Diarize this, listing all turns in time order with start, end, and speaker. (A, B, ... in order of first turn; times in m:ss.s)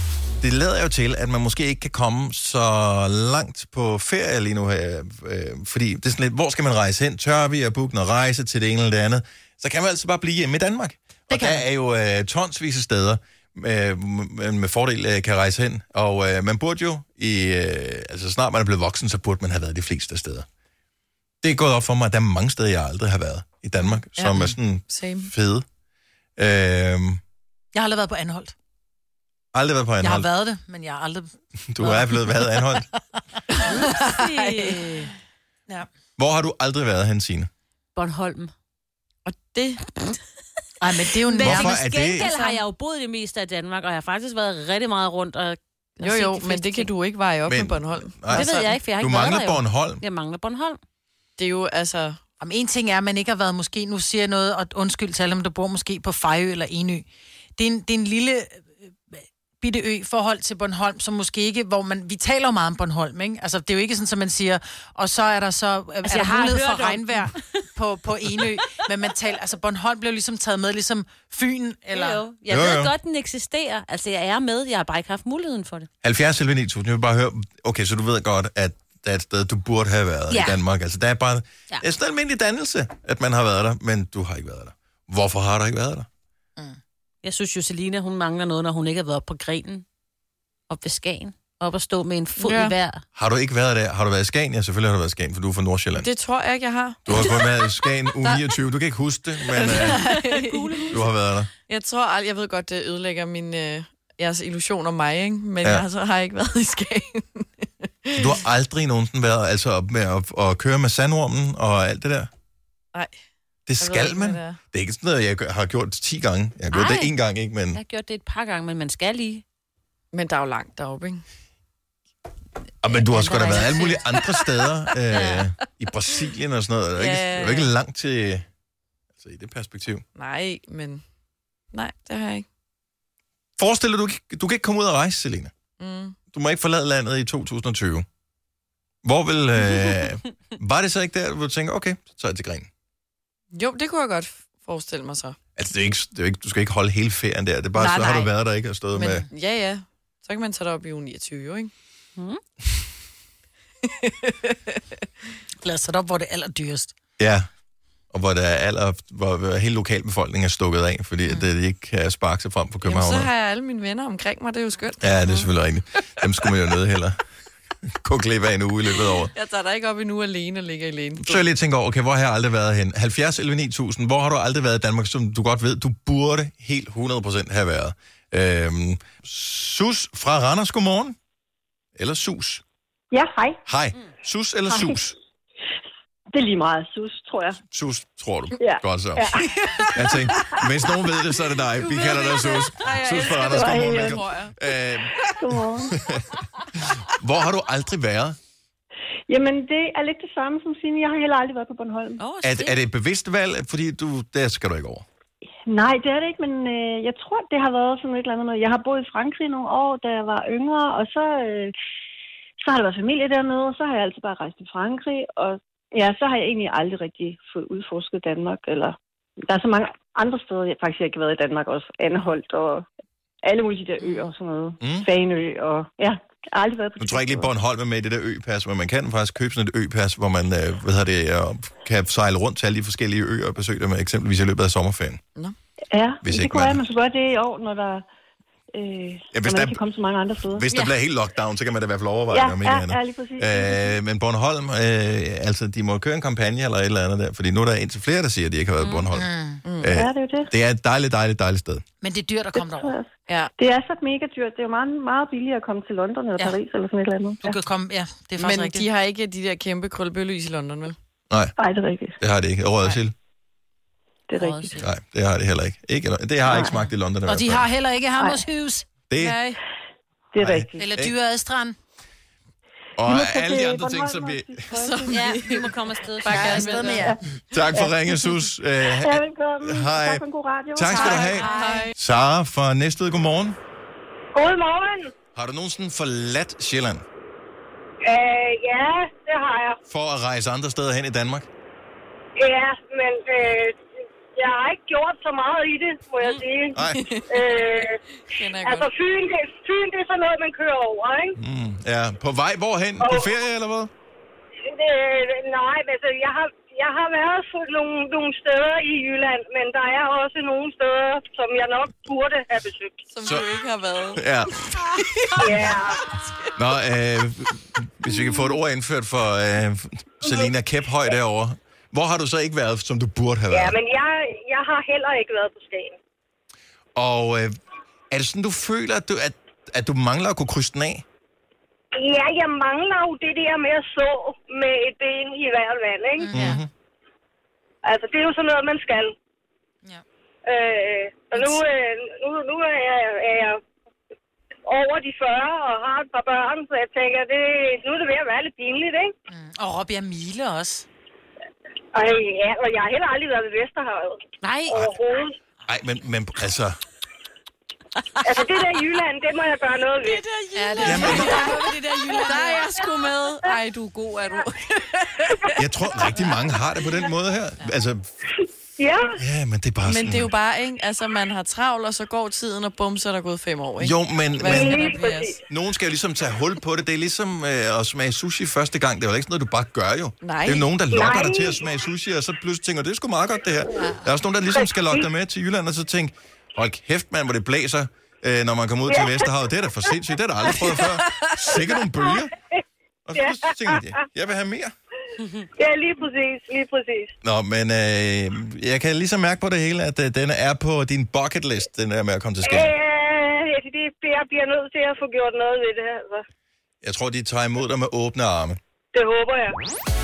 0:00.4-0:20.5 A
0:11.3-0:11.6 B
0:21.4-0:25.6 A
0:24.1-0:25.3 C
0:26.4-0:27.2 A
0:27.7-0:28.5 B
0:29.5-0:30.3 A
0:30.0-0:31.3 B
0:31.7-0:32.8 A
0:32.1-0:33.0 B
0:33.5-0:35.1 C
0:33.7-0:35.1 D
0:36.2-0:37.5 A
0:37.9-0:38.5 D
0:39.2-0:39.8 C
0:39.9-0:40.2 D
0:40.8-0:41.7 B
0:41.2-0:46.9 D
0:41.4-0:42.3 A
0:42.2-0:42.6 C
0:46.0-0:48.8 C
0:47.5-0:50.0 A
0:48.3-0:50.8 D
0:51.4-0:52.2 C
0:52.4-1:12.2 B
1:06.0-1:07.6 D
1:08.3-1:08.7 D
1:11.9-1:15.9 D
1:12.5-1:12.9 A
1:16.0-1:26.1 A
1:27.2-1:29.8 D
1:30.7-1:33.0 D
1:32.4-1:32.8 C
1:33.1-1:36.1 A
1:35.9-1:37.6 C
1:37.0-1:40.1 A
1:39.5-1:41.0 C
1:39.7-1:41.1 D
1:40.9-1:41.5 A
1:41.7-1:48.2 C
1:48.1-1:52.3 A
1:53.7-1:57.8 A
1:53.8-1:54.6 C
1:56.7-1:57.1 D
1:57.7-1:59.4 D
2:00.1-2:01.2 C
2:02.8-2:08.4 A
2:02.9-2:04.2 D
2:05.1-2:05.5 D
2:07.0-2:07.7 C
2:09.2-2:10.0 A
2:10.2-2:11.0 C
2:11.7-2:12.4 C
2:13.6-2:15.5 A
2:15.8-2:16.2 C
2:16.3-2:18.0 A
2:19.0-2:22.7 A
2:23.5-2:25.4 C
2:25.6-2:29.2 A
2:27.7-2:28.3 C
2:28.9-2:31.7 C
2:33.8-2:35.0 C
2:35.6-2:36.9 B
2:37.2-2:37.5 A
2:38.1-2:43.3 A
2:42.8-2:45.5 C
2:45.0-2:47.2 A
2:48.0-2:49.3 A
2:49.0-2:51.4 C
2:51.2-3:01.2 A
3:02.0-3:02.6 A
3:03.1-3:03.6 E
3:03.6-3:05.2 A
3:04.7-3:05.0 E
3:06.3-3:07.6 E
3:07.7-3:09.3 A
3:08.6-3:10.6 E
3:09.6-3:10.5 C
3:09.9-3:15.3 A
3:11.7-3:14.5 C
3:13.5-3:14.2 E
3:15.4-3:16.0 E
3:15.9-3:16.3 A
3:16.9-3:18.4 A
3:19.3-3:22.2 E
3:22.4-3:22.7 D
3:22.4-3:25.0 A
3:25.7-3:31.7 E
3:32.6-3:39.0 E
3:39.5-3:42.8 E
3:43.4-3:47.5 E
3:44.8-3:45.1 A
3:47.0-3:55.2 A
3:55.9-3:58.0 E
3:56.2-3:56.8 A
3:58.7-4:00.6 E
3:59.3-3:59.8 A
4:00.5-4:09.2 A
4:02.3-4:04.0 E
4:08.8-4:09.1 D
4:09.1-4:09.6 B
4:09.6-4:09.9 C
4:09.8-4:11.8 A
4:09.9-4:10.5 E
4:12.0-4:13.0 B
4:12.5-4:17.5 E
4:13.3-4:13.5 C
4:17.4-4:18.9 B
4:18.4-4:21.0 C
4:21.3-4:21.6 A
4:21.6-4:22.2 E
4:22.2-4:23.1 A
4:24.3-4:24.8 E
4:24.3-4:24.9 D
4:24.8-4:27.6 A
4:26.5-4:26.8 E
4:26.8-4:29.0 B
4:28.2-4:28.4 E
4:29.1-4:29.4 A
4:29.2-4:29.6 C
4:30.3-4:30.9 E
4:30.4-4:31.1 A
4:30.8-4:31.8 B
4:33.0-4:34.6 A
4:33.1-4:35.3 E
4:34.7-4:37.1 C
4:35.1-4:37.2 D
4:36.2-4:37.2 E
4:36.4-4:36.9 B
4:37.5-4:40.2 A
4:38.9-4:41.4 E
4:40.7-4:43.6 A
4:40.9-4:41.9 C
4:41.2-4:41.9 D
4:44.3-4:45.1 F
4:45.3-4:47.0 A
4:48.0-4:49.8 F
4:49.9-4:51.5 A
4:52.4-4:53.8 F
4:54.3-4:56.8 F
4:56.7-4:57.1 A
4:56.8-4:58.9 C
4:57.3-4:58.0 F
4:58.6-5:01.4 F
5:01.4-5:03.9 A
5:03.0-5:03.3 F
5:04.6-5:13.1 F
5:13.1-5:14.2 C
5:13.2-5:13.5 A
5:14.2-5:15.6 A
5:15.4-5:16.4 C
5:15.4-5:16.0 F
5:16.5-5:23.8 A
5:23.5-5:26.0 F
5:27.0-5:27.5 A
5:28.1-5:31.0 A
5:32.0-5:36.3 F
5:36.2-5:36.6 B
5:36.3-5:36.7 A
5:37.8-5:39.1 F
5:40.4-5:43.6 F
5:41.3-5:41.6 B
5:44.6-5:49.1 F
5:49.3-5:50.8 B
5:51.9-5:55.4 F
5:54.4-5:54.8 B
5:55.6-5:56.8 A
5:58.2-6:00.2 F
6:00.0-6:06.4 C
6:00.1-6:01.3 B
6:00.8-6:01.4 A
6:01.0-6:01.5 F
6:02.1-6:02.7 B
6:05.6-6:08.1 A
6:08.8-6:09.2 F
6:09.2-6:10.3 A
6:09.8-6:15.4 C
6:13.8-6:14.8 A
6:14.5-6:15.4 F
6:15.5-6:32.3 A
6:20.2-6:20.8 C
6:20.9-6:21.6 F
6:24.5-6:25.1 F
6:28.8-6:29.3 F
6:30.7-6:31.5 C
6:32.0-6:32.6 F
6:33.1-6:34.7 A
6:33.1-6:34.0 F
6:35.6-6:37.1 F
6:37.2-6:42.7 A
6:42.4-6:46.2 F
6:46.8-6:48.6 A
6:48.9-6:49.6 F